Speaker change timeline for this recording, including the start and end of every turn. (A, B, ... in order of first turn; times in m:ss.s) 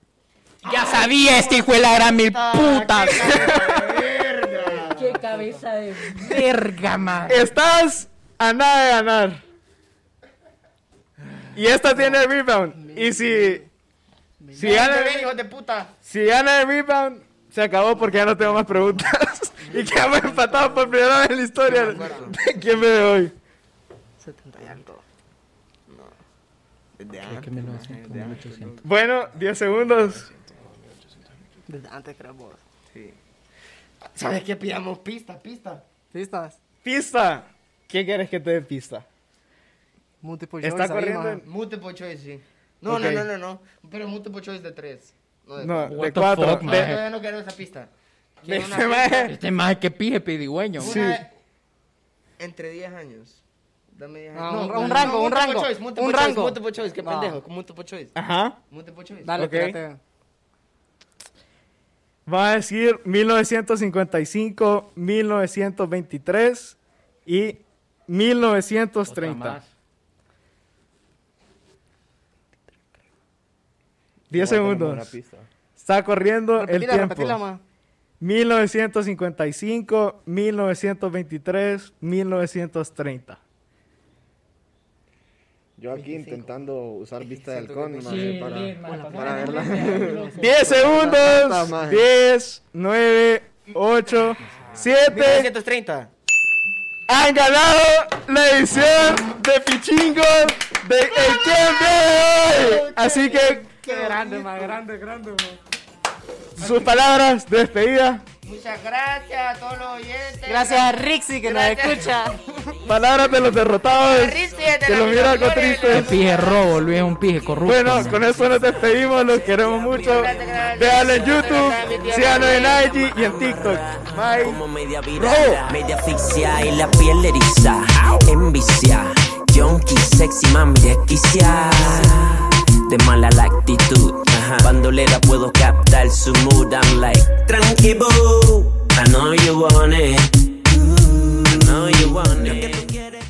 0:00.6-0:01.6 A
0:00.6-0:03.6 B
0:02.2-0:05.2 A
0:03.2-0:03.7 C
0:04.9-0:07.5 B
0:05.2-0:05.7 D
0:07.3-0:09.4 C
0:11.5-0:13.6 C
0:11.8-0:13.7 D
0:14.4-0:14.8 D
0:14.5-0:15.3 C
0:14.6-0:15.9 A
0:16.0-0:23.3 C
0:18.2-0:19.0 D
0:19.6-0:21.0 D
0:21.6-0:22.4 A
0:24.2-0:25.0 D
0:25.9-0:26.1 A
0:27.0-0:28.8 A
0:27.2-0:28.8 B
0:28.8-0:30.2 C
0:29.5-0:31.3 A
0:31.7-0:32.6 D
0:32.9-0:33.2 A
0:34.0-0:35.8 A
0:36.1-0:36.6 D
0:36.8-0:39.0 C
0:40.2-0:41.4 D
0:40.6-0:41.4 C
0:41.4-0:47.9 A
0:42.9-0:43.3 C
0:45.6-0:46.8 C
0:45.9-0:47.0 B
0:48.4-0:49.4 A
0:48.4-0:49.4 C
0:49.2-0:51.0 B
0:50.8-0:51.3 A
0:50.8-0:51.2 C
0:52.4-0:53.4 A
0:53.9-0:58.1 A
0:54.3-0:57.4 D
0:58.1-0:58.6 C
0:58.7-0:59.4 A
0:59.2-1:00.0 D
0:59.3-0:59.8 C
1:02.2-1:09.6 C
1:09.0-1:09.7 B
1:14.3-1:15.1 C
1:14.3-1:15.5 E
1:15.8-1:17.4 C
1:16.5-1:17.6 D
1:18.2-1:23.4 C
1:25.8-1:30.2 E
1:25.9-1:26.6 D
1:27.2-1:28.7 A
1:28.0-1:30.9 B
1:28.7-1:31.4 D
1:30.4-1:35.5 C
1:31.0-1:32.0 E
1:34.8-1:36.1 A
1:37.1-1:43.7 C
1:42.5-1:43.3 E
1:43.4-1:45.6 D
1:43.8-1:44.8 E
1:46.6-1:48.2 C
1:48.4-1:52.2 A
1:50.4-1:52.8 D
1:52.9-1:56.1 C
1:53.9-2:03.1 A
1:55.9-1:58.2 B
1:57.6-2:04.6 C
2:02.3-2:20.3 F
2:04.1-2:04.4 A
2:05.1-2:05.7 C
2:21.5-2:23.1 F
2:22.4-2:22.8 A